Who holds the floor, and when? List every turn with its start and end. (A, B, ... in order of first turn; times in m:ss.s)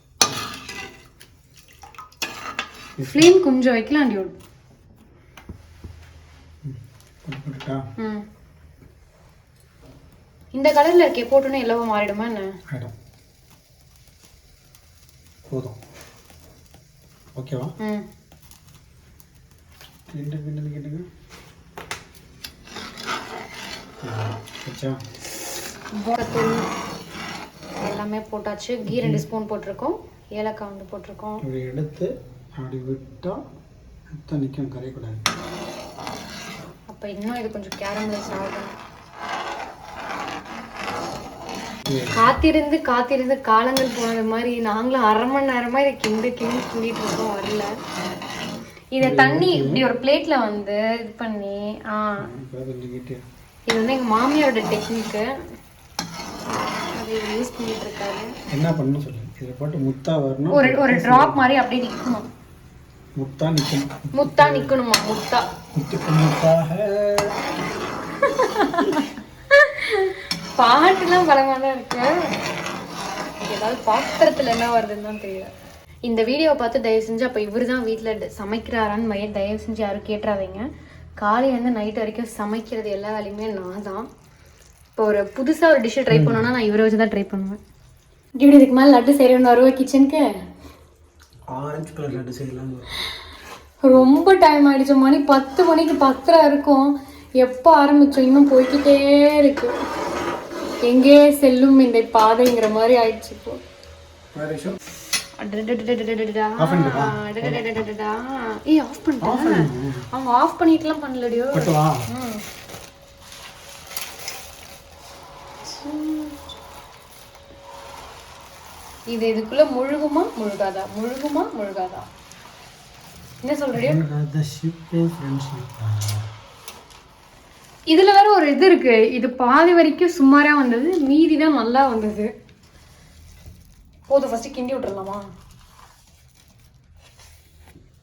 0:03.0-0:03.3 A
0:03.0-0:04.3 B
0:06.6-0:07.8 A
0:08.0-0:08.2 B
0:10.5-0:12.5 B
0:15.5-0:15.8 A
0:17.4-0:17.7 A
0:17.8-0:18.0 B
0:20.1-0:21.1 A
0:24.0-0:25.0 A
0:25.9-0:26.7 B
0:27.8-0:31.4 B
0:28.9-0:29.2 A
0:31.4-0:33.4 A
0:34.1-0:35.2 A
0:36.9-0:38.8 B
0:41.9-0:42.3 A
0:42.1-0:47.7 B
0:48.9-0:52.2 B
0:49.0-0:49.8 A
0:52.2-0:53.2 A
0:53.7-0:55.3 B
0:56.9-0:58.3 B
0:58.5-1:01.5 A
1:00.5-1:02.3 B
1:03.1-1:04.8 A
1:04.1-1:05.4 B
1:05.7-1:07.4 A
1:08.2-1:12.1 B
1:13.4-1:15.5 B
1:16.0-1:20.6 B
1:21.2-1:24.1 B
1:25.0-1:27.6 B
1:26.1-1:26.4 A
1:28.4-1:30.3 B
1:31.5-1:32.9 A
1:33.8-1:39.7 B
1:40.8-1:43.6 B
1:44.3-1:44.8 A
1:45.4-1:52.4 B
1:46.6-1:47.6 A
1:49.2-1:50.0 A
1:51.5-1:52.0 A
1:55.6-1:56.4 B
1:59.1-2:02.1 B
2:03.4-2:04.0 B
2:03.8-2:06.3 A
2:07.9-2:12.3 B
2:14.1-2:15.2 B